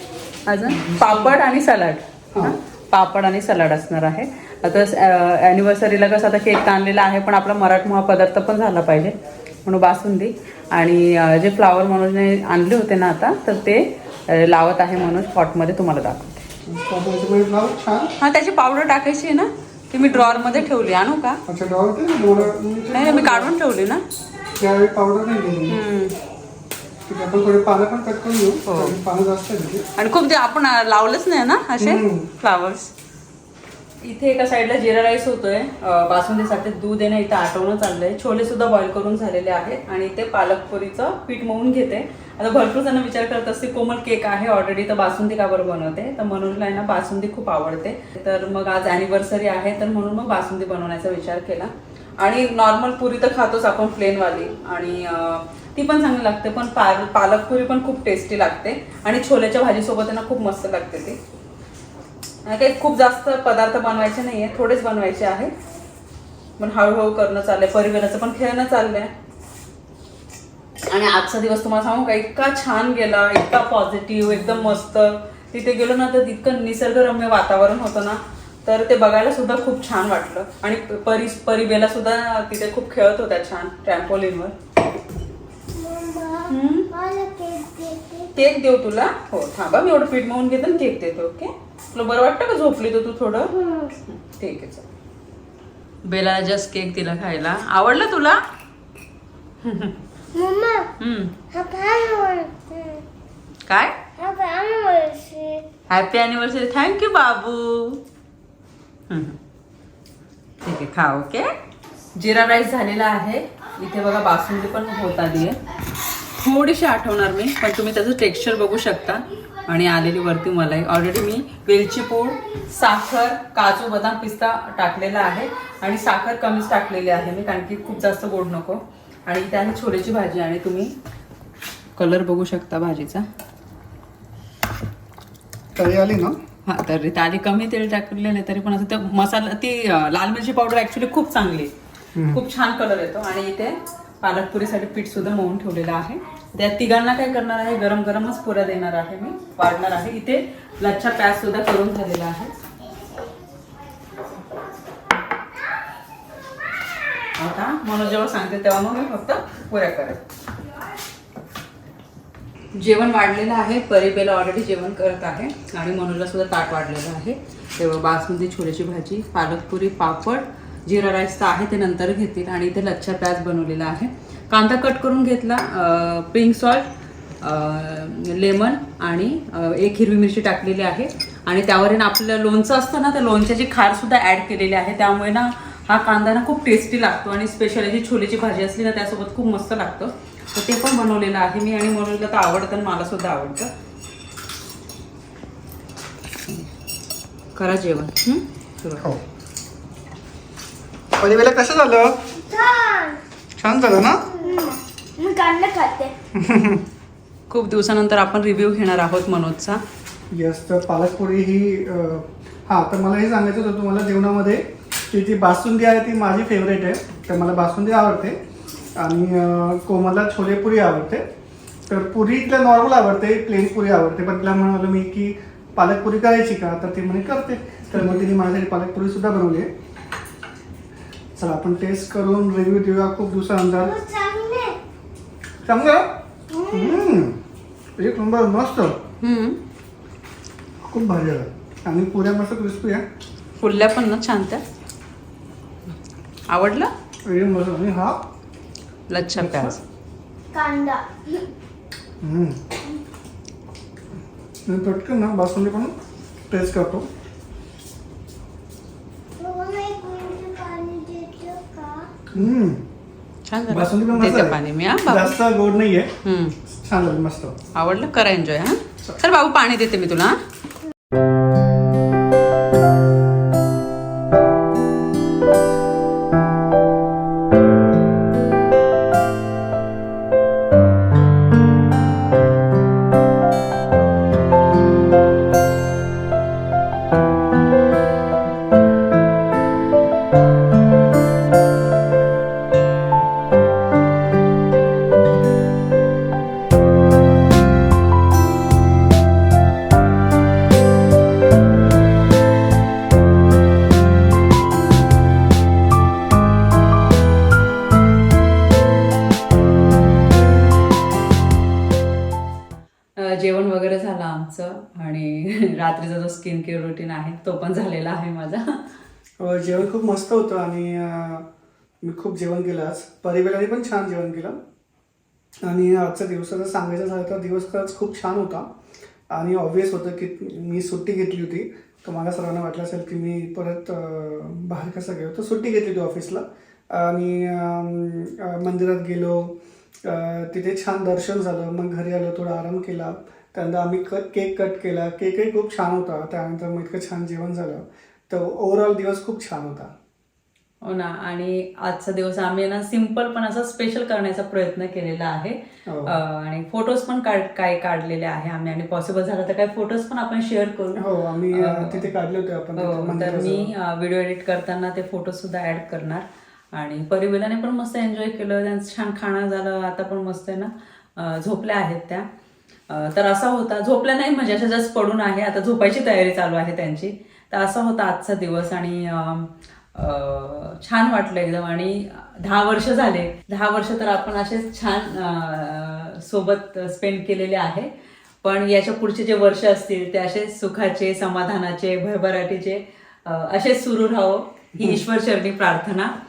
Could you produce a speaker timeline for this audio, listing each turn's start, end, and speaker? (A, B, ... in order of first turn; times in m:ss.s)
0:00.4-0:16.5 A
0:00.7-0:01.3 B
0:16.6-0:18.1 B
0:18.2-0:21.4 A
0:20.1-0:20.7 B
0:21.4-0:23.5 B
0:22.4-0:24.0 A
0:24.6-0:25.8 B
0:25.7-0:26.2 A
0:27.0-0:29.9 B
0:28.6-0:29.0 A
0:30.0-0:32.9 A
0:31.8-0:32.3 B
0:34.0-1:01.2 A
1:02.4-1:05.5 A
1:06.6-1:09.1 A
1:10.9-1:24.5 A
1:25.7-1:28.3 C
1:26.5-1:26.9 A
1:28.3-1:33.5 A
1:33.5-1:33.9 C
1:34.0-1:34.8 A
1:36.0-1:38.4 A
1:39.6-1:40.0 A
1:40.3-1:40.9 C
1:41.0-1:41.3 A
1:41.5-1:43.0 C
1:43.7-1:43.9 A
1:44.2-1:45.6 C
1:45.9-1:48.0 A
1:49.1-1:49.4 A
1:50.6-1:51.5 A
1:52.1-1:55.6 A
1:56.3-2:10.9 A
2:12.0-2:13.2 A
2:15.7-2:16.4 B
2:16.6-2:21.7 A
2:22.2-2:22.4 B
2:22.3-2:32.5 A
2:32.8-2:33.4 C
2:37.3-2:40.2 A
2:42.7-2:56.9 A
2:57.4-3:13.7 A
3:17.5-3:19.1 A
3:21.2-3:22.2 B
3:22.5-3:23.2 C
3:23.6-3:24.2 B
3:24.3-3:26.1 C
3:26.3-3:26.8 B
3:27.5-3:29.8 A
3:30.3-3:38.4 B
3:38.9-3:41.2 B
3:41.9-3:49.7 B
3:51.4-3:53.9 B
3:53.8-3:54.8 C
3:55.6-3:56.2 B
3:56.5-3:57.1 C
3:56.7-3:57.4 B
3:58.0-3:59.0 B
3:59.2-3:59.6 A
4:00.8-4:03.0 B
4:03.6-4:04.6 A
4:06.5-4:06.9 A
4:07.2-4:08.2 B
4:09.1-4:09.8 A
4:09.4-4:09.8 B
4:10.5-4:11.5 C
4:12.2-4:12.6 B
4:14.6-4:16.0 B
4:16.5-4:17.1 B
4:19.4-4:22.1 C
4:22.3-4:22.8 B
4:23.5-4:25.4 A
4:23.7-4:26.1 B
4:26.2-4:26.6 A
4:26.7-4:27.6 B
4:27.7-4:30.4 A
5:13.2-5:18.8 A
5:19.4-5:21.4 B
5:22.0-5:24.6 B
5:25.6-5:28.7 B
5:29.3-5:49.9 B
5:50.8-6:02.1 A
5:55.8-5:56.1 B
6:00.9-6:03.7 B
6:02.8-6:12.2 A
6:12.9-6:27.9 A
6:28.4-6:36.1 A
6:34.8-6:35.0 B